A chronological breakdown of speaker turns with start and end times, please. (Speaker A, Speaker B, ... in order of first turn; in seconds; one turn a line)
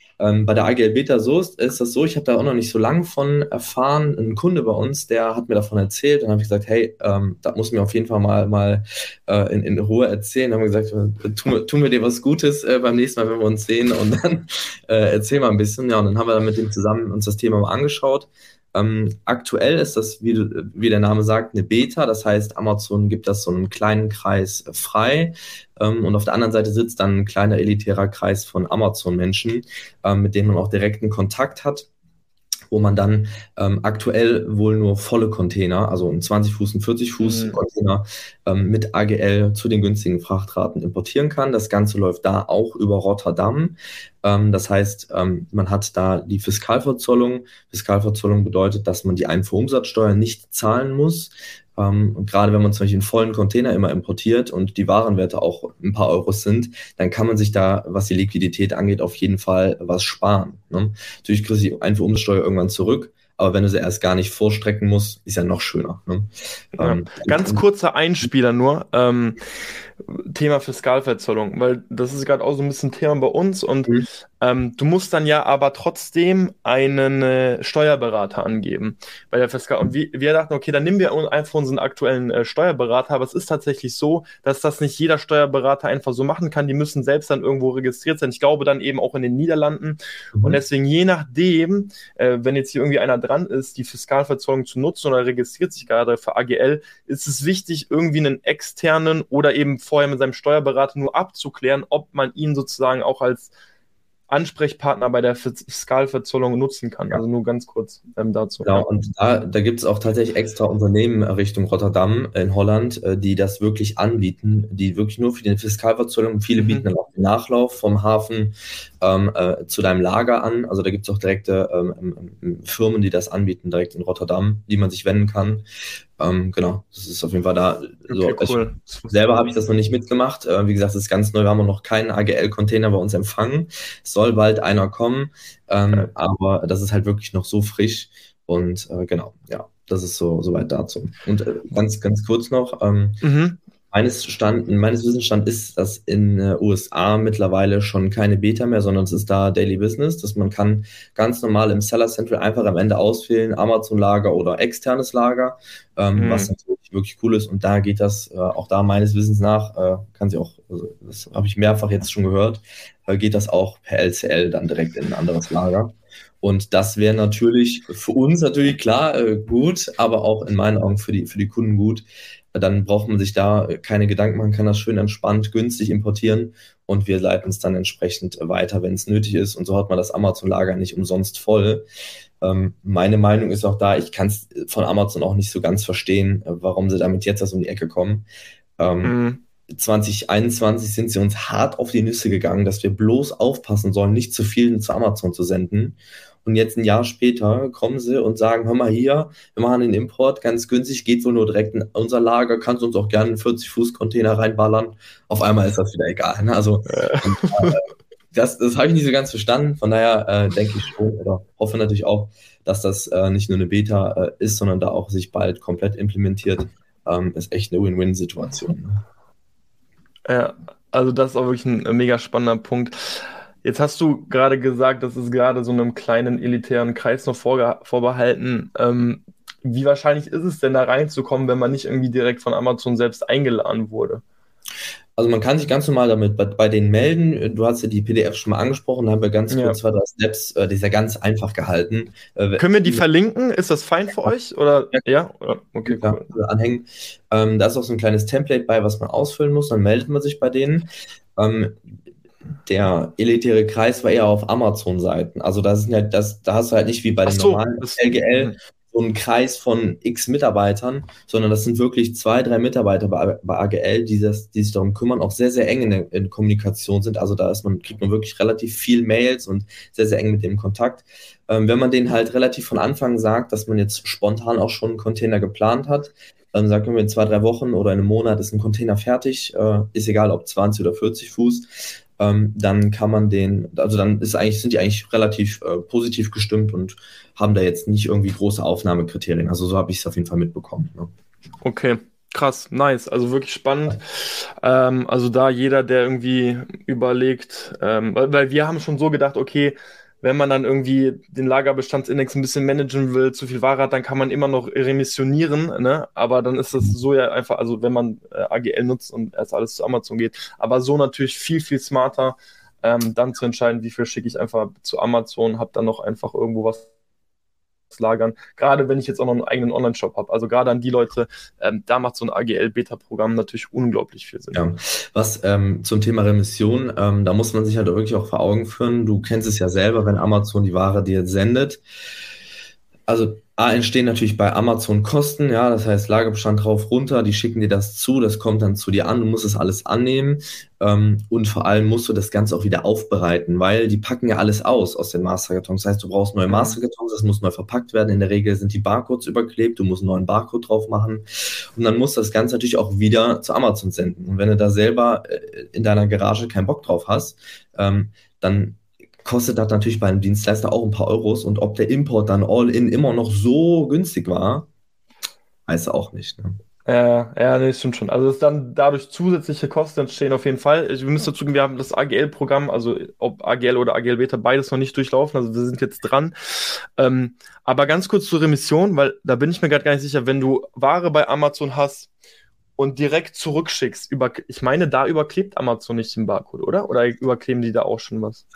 Speaker A: 0.2-31.9
Speaker A: 32.7-67.6
Speaker B: 37.2-37.6
Speaker B: 66.8-69.4
Speaker B: 70.1-103.5
Speaker A: 90.3-90.6
Speaker B: 104.3-108.9
Speaker A: 108.6-125.7
Speaker B: 116.6-116.9
Speaker A: 126.2-143.2
Speaker B: 128.1-129.2
Speaker B: 143.2-143.6
Speaker A: 143.9-181.9
Speaker B: 156.2-156.5
Speaker A: 182.4-188.3
Speaker A: 188.8-189.1
Speaker B: 189.0-189.4
Speaker A: 189.7-207.8
Speaker B: 206.9-207.8
Speaker A: 208.3-219.0
Speaker B: 220.3-234.2
Speaker A: 235.2-243.0
Speaker B: 239.5-239.8
Speaker B: 242.6-246.3
Speaker A: 245.9-251.8
Speaker A: 252.7-291.1
Speaker B: 257.3-258.6
Speaker B: 291.6-316.9
Speaker B: 317.9-324.6
Speaker A: 324.5-331.8
Speaker A: 333.1-364.7
Speaker B: 346.5-346.8
Speaker A: 365.7-366.6
Speaker B: 366.9-382.1
Speaker B: 382.8-388.4